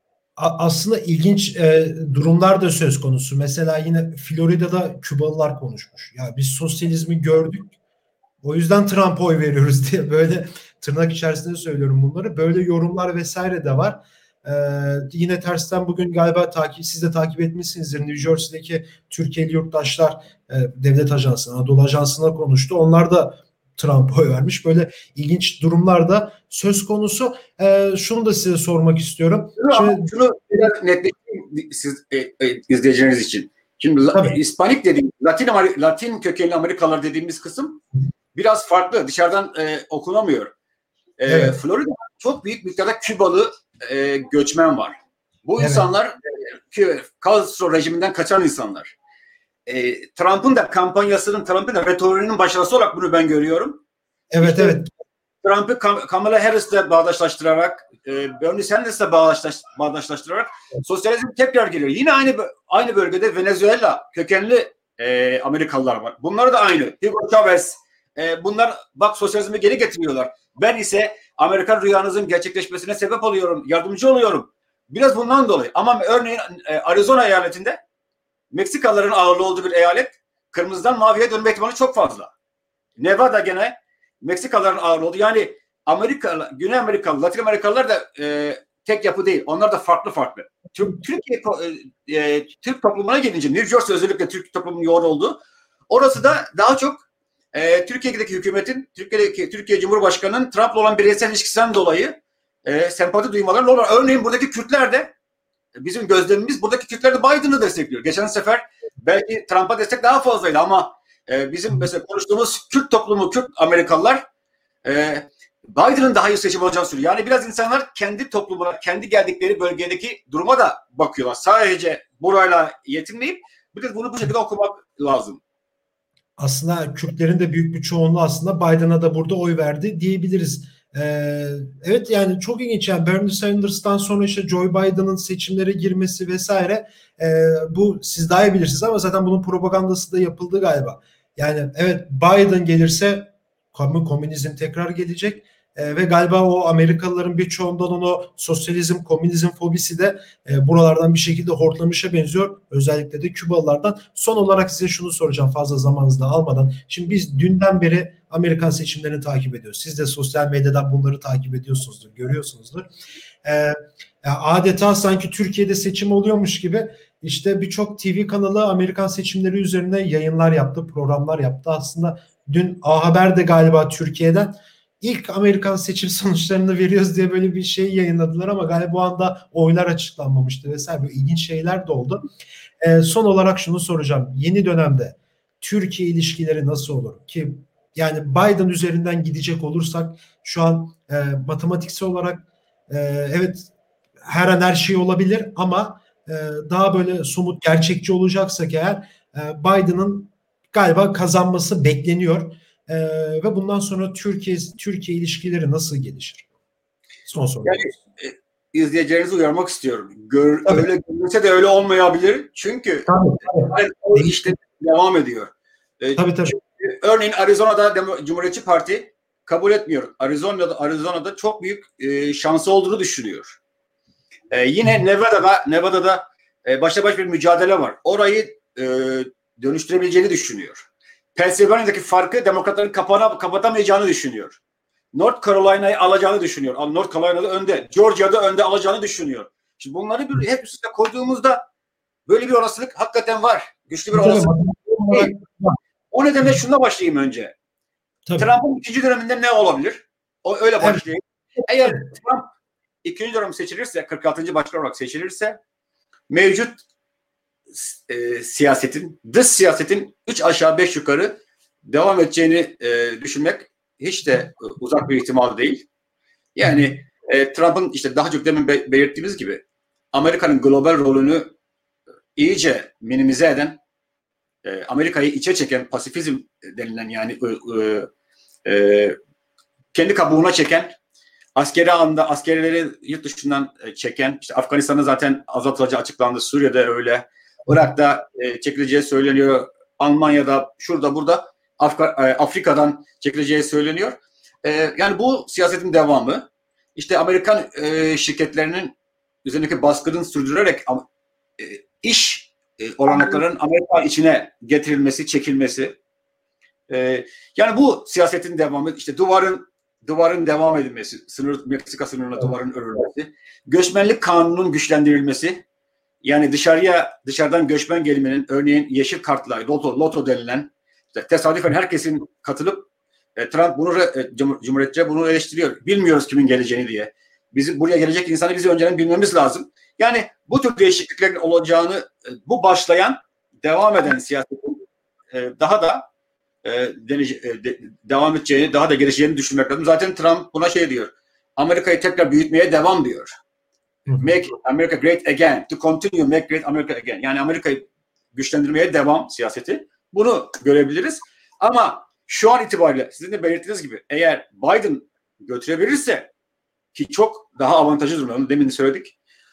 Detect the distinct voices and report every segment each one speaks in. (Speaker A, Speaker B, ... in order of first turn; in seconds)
Speaker A: 0.4-7.7, 8.4-30.1, 41.3-41.6, 45.6-45.9, 54.3-54.9, 126.4-162.9, 163.4-182.2, 182.8-193.7, 194.2-206.5, 207.3-207.9, 213.1-214.5, 216.2-216.6, 244.1-245.8, 248.3-248.5, 250.8-251.1, 266.6-266.9, 344.1-344.3
Speaker B: 29.6-37.8, 38.3-40.5, 41.2-48.9, 49.6-53.8, 54.4-54.8, 55.4-77.8, 78.5-82.3, 83.0-105.1, 105.8-114.2, 114.8-125.4, 207.6-223.6, 224.5-234.6, 235.1-241.6, 242.3-244.5, 245.1-245.4, 246.1-247.5, 248.4-252.5, 253.0-255.6, 256.3-256.8, 257.7-265.9, 266.5-271.5, 272.4-273.8, 274.6-278.1, 278.6-279.2, 279.9-280.9, 281.6-298.9, 299.4-301.0, 301.6-306.0, 306.9-315.6, 316.2-336.1, 336.6-343.3, 344.1-356.3, 356.9-359.1